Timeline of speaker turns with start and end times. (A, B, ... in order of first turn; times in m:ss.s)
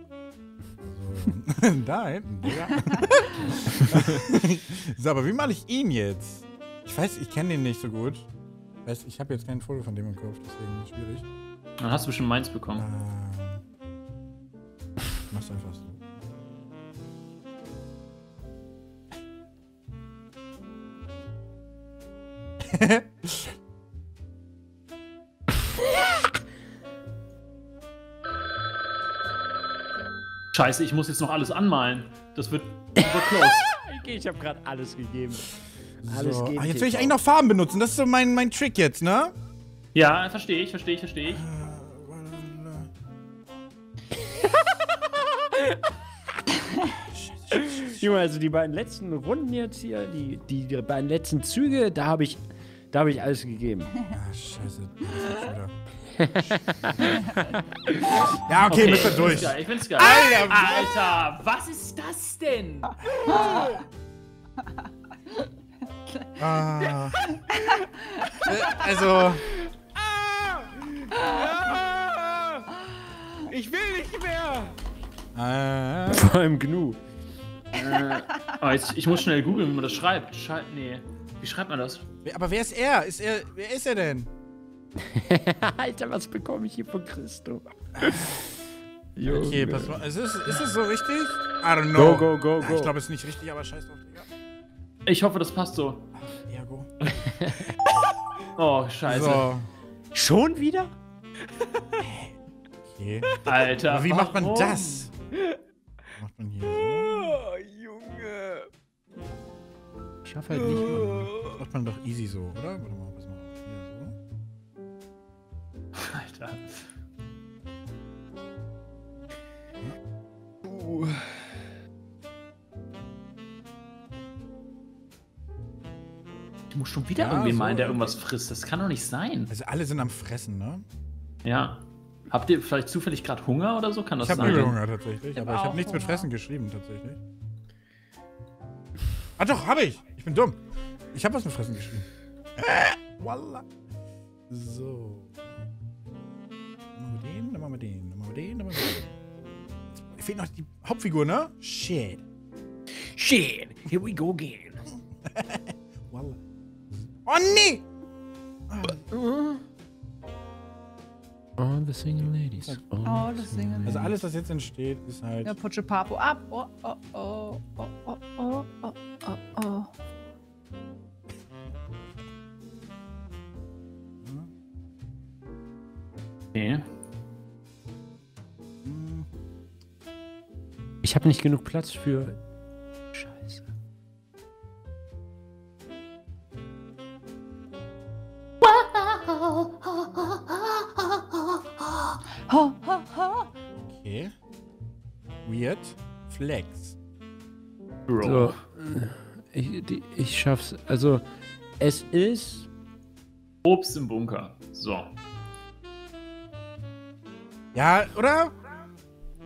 0:00.8-0:08.3 A
0:08.8-0:11.3 A
0:11.8-0:12.8 B
0:12.8-0:13.6 A
0:15.3-0:16.0 A
0:22.7-0:23.5 A
0:30.5-0:33.7 B
0:33.6-0:35.5 C
0:36.0-0:37.2 C
0:36.0-0:39.3 A
0:40.0-0:41.4 B
0:41.3-0:42.9 A
0:44.4-0:44.6 C
0:45.4-0:45.8 C
0:46.8-0:48.1 A
0:47.6-0:54.0 C
0:54.1-0:55.7 A
0:56.2-0:59.1 C
0:58.3-1:00.9 A
0:58.7-1:03.0 B
1:03.0-1:03.8 A
1:06.4-1:07.4 A
1:08.3-1:09.5 A
1:11.3-1:12.4 D
1:13.5-1:14.8 D
1:15.4-1:16.3 A
1:16.1-1:17.0 C
1:17.7-1:22.0 B
1:22.2-1:24.3 A
1:25.1-1:28.5 C
1:29.2-1:30.0 C
1:29.2-1:34.2 A
1:31.9-1:32.9 C
1:35.1-1:36.1 B
1:36.2-1:36.9 A
1:37.2-1:37.6 C
1:38.6-1:39.5 B
1:39.1-1:39.7 A
1:40.1-1:40.9 C
1:42.0-1:42.4 A
1:42.9-1:45.1 A
1:43.4-1:45.1 B
1:46.2-1:47.4 A
1:46.8-1:48.7 D
1:50.3-1:51.1 C
1:50.5-1:54.2 A
1:56.0-1:56.8 B
2:00.6-2:01.3 D
2:06.7-2:09.5 B
2:07.2-2:08.2 A
2:09.5-2:10.8 A
2:11.4-2:14.8 B
2:14.2-2:17.2 A
2:15.4-2:16.3 E
2:19.4-2:20.6 A
2:21.1-2:22.1 A
2:22.6-2:23.6 A
2:24.5-2:25.4 A
2:27.0-2:29.1 A
2:30.0-2:32.2 A
2:33.0-2:34.8 C
2:35.3-2:36.4 A
2:36.9-2:37.8 A
2:38.7-2:39.0 A
2:39.1-2:39.5 C
2:41.6-2:44.1 C
2:43.1-2:44.0 E
2:43.8-2:45.6 A
2:45.4-2:49.9 E
2:54.2-2:54.5 A
2:56.6-2:56.8 B
2:58.8-2:59.3 A
3:01.0-3:02.4 C
3:03.1-3:03.6 C
3:08.7-3:09.6 B
3:12.5-3:13.5 E
3:13.8-3:14.3 A
3:15.4-3:17.0 A
3:18.1-3:18.6 B
3:18.2-3:21.2 C
3:21.8-3:22.7 C
3:23.6-3:25.2 B
3:27.8-3:28.5 A